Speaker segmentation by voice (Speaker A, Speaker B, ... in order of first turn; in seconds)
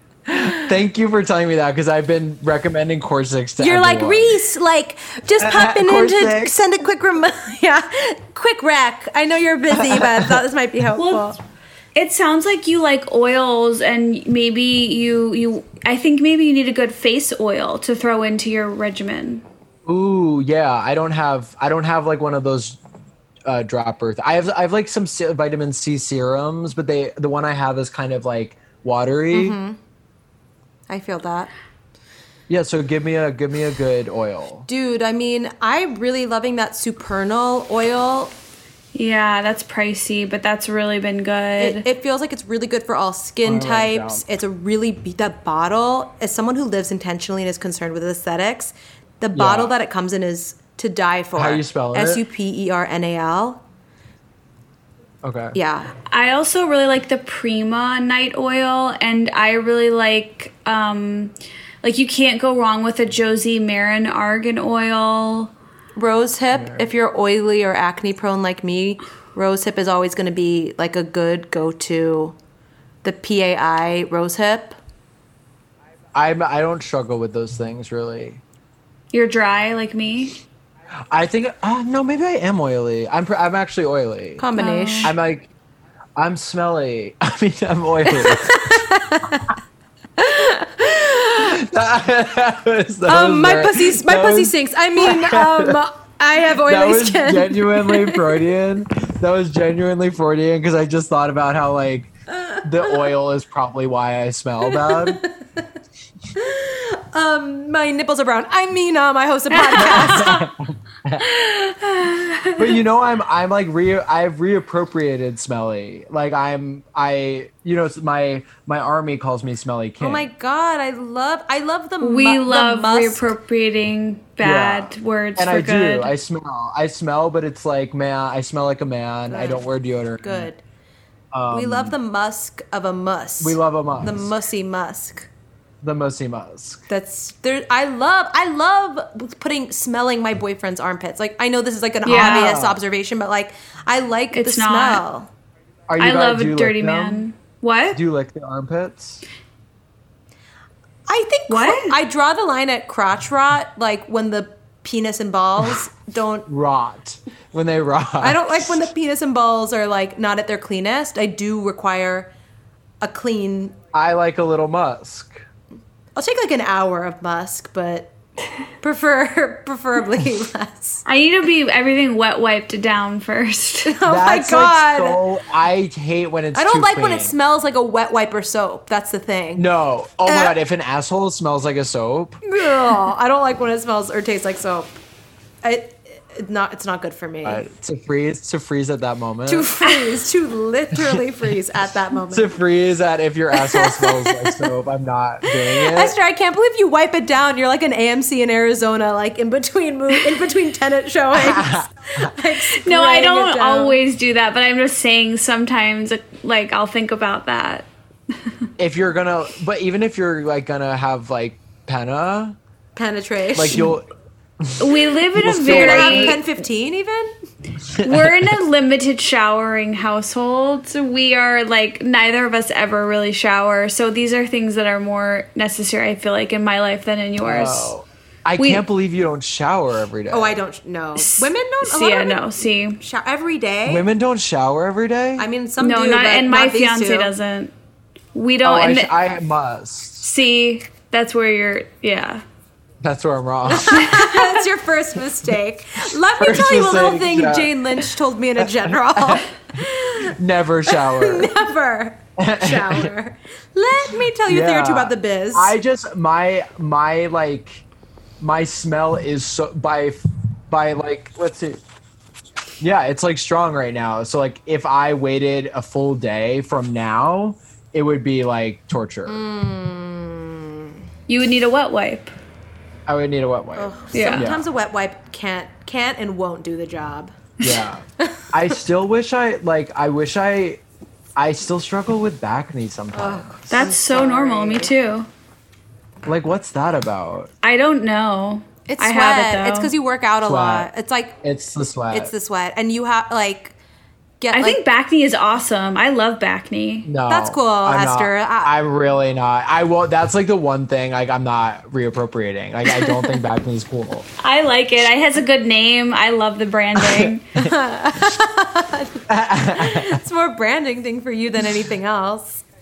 Speaker A: 0.3-4.4, 5.4-6.5, 9.9-10.3, 19.9-22.8, 23.5-29.6, 32.5-34.7, 43.4-44.2, 49.3-49.7, 51.4-52.2, 55.2-55.6, 66.5-66.9, 76.1-78.4, 81.1-84.5, 85.0-85.5, 86.2-88.7, 91.1-95.8, 96.6-105.2, 109.8-111.3, 112.6-120.3, 124.4-130.5, 131.3-131.9, 133.4-134.3, 135.8-136.8, 142.1-142.8, 145.9-147.3, 147.9-149.2, 156.5-158.9, 163.9-165.4, 174.0-177.3, 179.6-182.4, 187.4-189.7, 192.3-196.2, 201.4-202.3, 208.8-212.6, 213.5-214.1, 214.6-216.4, 218.0-218.5, 227.4-230.6, 233.8-235.5, 238.6-240.3, 243.0-244.2, 246.4-247.8, 248.6-251.5, 252.4-253.1, 254.5-257.9, 258.4-261.8, 262.8-269.4, 273.1-274.6, 277.6-280.8, 281.4-283.9, 286.2-287.5, 290.4-290.9, 291.4-292.3, 297.1-304.3, 307.0-307.7, 309.3-310.2
Speaker B: 3.6-11.4, 29.3-29.8, 30.9-31.5, 34.7-38.3, 41.6-53.6, 55.5-55.9, 66.0-72.4, 73.0-74.8, 84.4-85.2, 88.1-89.5, 90.2-91.5, 93.1-98.5, 102.3-103.1, 104.7-105.3, 106.3-110.5, 120.0-123.3, 129.3-129.7, 130.2-130.6, 131.5-135.3, 136.9-145.3, 151.1-156.5, 158.2-162.3, 163.0-163.8, 166.2-168.2, 168.8-171.1, 173.9-175.2, 176.5-179.7, 180.3-180.6, 182.5-185.0, 185.6-187.7, 189.5-192.6, 193.5-194.7, 195.4-204.0, 212.9-213.9, 215.7-217.3, 230.3-234.0, 235.4-237.3, 243.7-250.3, 250.9-255.8, 269.3-270.9, 273.8-277.3, 283.1-284.9, 288.9-291.4, 292.1-293.8, 294.4-294.8, 297.3-298.8, 302.9-303.4, 307.6-309.2, 309.8-312.6
Speaker C: 11.0-11.2, 11.9-19.4, 38.9-41.9, 56.1-65.5, 79.1-80.3, 84.6-85.1, 109.5-110.5, 111.4-112.6, 122.0-126.1, 142.1-142.6, 144.3-145.0, 146.0-148.0, 151.5-151.9, 171.1-174.0, 202.8-207.9, 214.8-216.4, 218.0-227.9, 228.6-228.8, 231.2-233.0, 235.8-237.7, 238.3-239.1, 240.2-242.4, 271.3-272.3, 274.1-274.5, 283.7-285.3, 287.6-289.9, 294.5-297.1, 304.4-307.5